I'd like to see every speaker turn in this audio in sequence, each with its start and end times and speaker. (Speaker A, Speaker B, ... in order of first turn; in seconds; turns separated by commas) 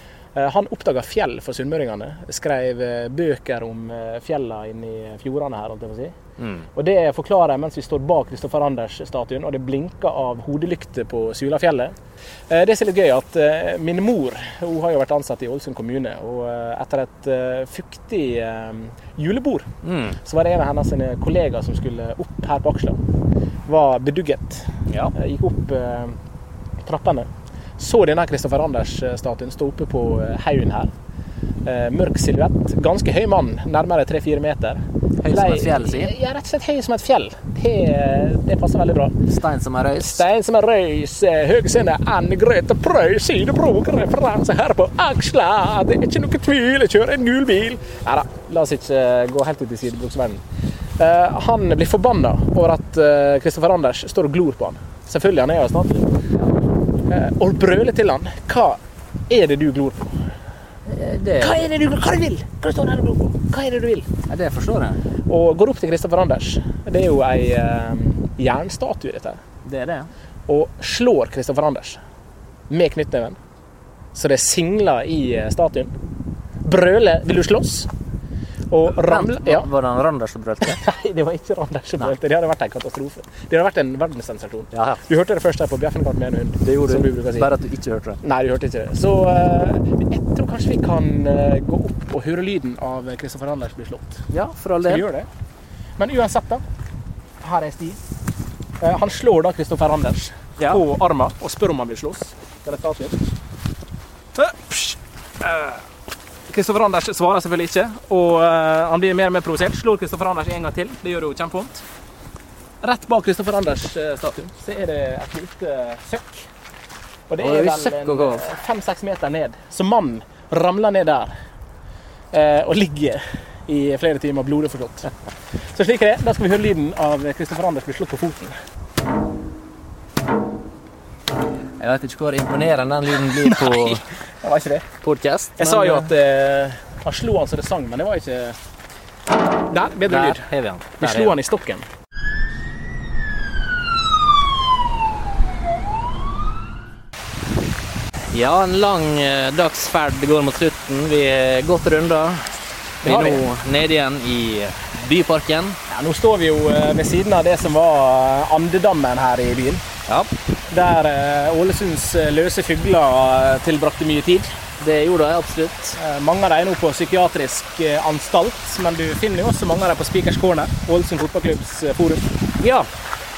Speaker A: 0.3-6.1, Speaker B: 6.4-6.7, Speaker A: 6.8-11.9, Speaker A: 12.5-19.7, Speaker B: 19.8-20.2, Speaker A: 20.2-23.0, Speaker A: 23.7-26.1, Speaker A: 26.8-30.9, Speaker A: 31.6-39.1, Speaker B: 35.2-36.1, Speaker B: 39.2-40.2, Speaker A: 40.0-50.4, Speaker A: 51.0-56.0, Speaker A: 57.1-60.2, Speaker B: 60.8-61.7, Speaker A: 61.4-64.1, Speaker B: 64.3-65.0, Speaker A: 65.3-69.4, Speaker B: 69.6-70.1, Speaker A: 70.5-72.0, Speaker A: 72.7-73.4, Speaker A: 74.1-75.9, Speaker A: 76.6-77.9, Speaker A: 78.7-79.7, Speaker B: 78.8-80.8, Speaker A: 80.7-87.5, Speaker B: 84.7-85.0, Speaker B: 86.6-88.2, Speaker A: 88.2-94.2, Speaker B: 94.3-95.0, Speaker A: 94.9-95.3, Speaker A: 96.0-96.6, Speaker A: 97.4-98.0, Speaker A: 98.8-103.2, Speaker B: 100.6-100.8, Speaker A: 104.3-105.8, Speaker A: 106.5-111.8, Speaker A: 112.8-116.5, Speaker A: 117.3-121.3, Speaker B: 117.4-118.6, Speaker A: 122.3-125.1, Speaker A: 125.7-128.6, Speaker B: 131.8-134.1, Speaker A: 133.4-134.8, Speaker B: 135.0-136.1, Speaker A: 135.6-138.6, Speaker A: 139.7-140.4, Speaker B: 140.0-141.3, Speaker A: 141.0-141.8, Speaker B: 148.3-152.5, Speaker A: 153.0-153.4, Speaker B: 153.0-155.8, Speaker A: 155.9-159.8, Speaker A: 160.7-164.5, Speaker B: 164.8-166.0, Speaker A: 166.0-172.2, Speaker B: 172.6-172.9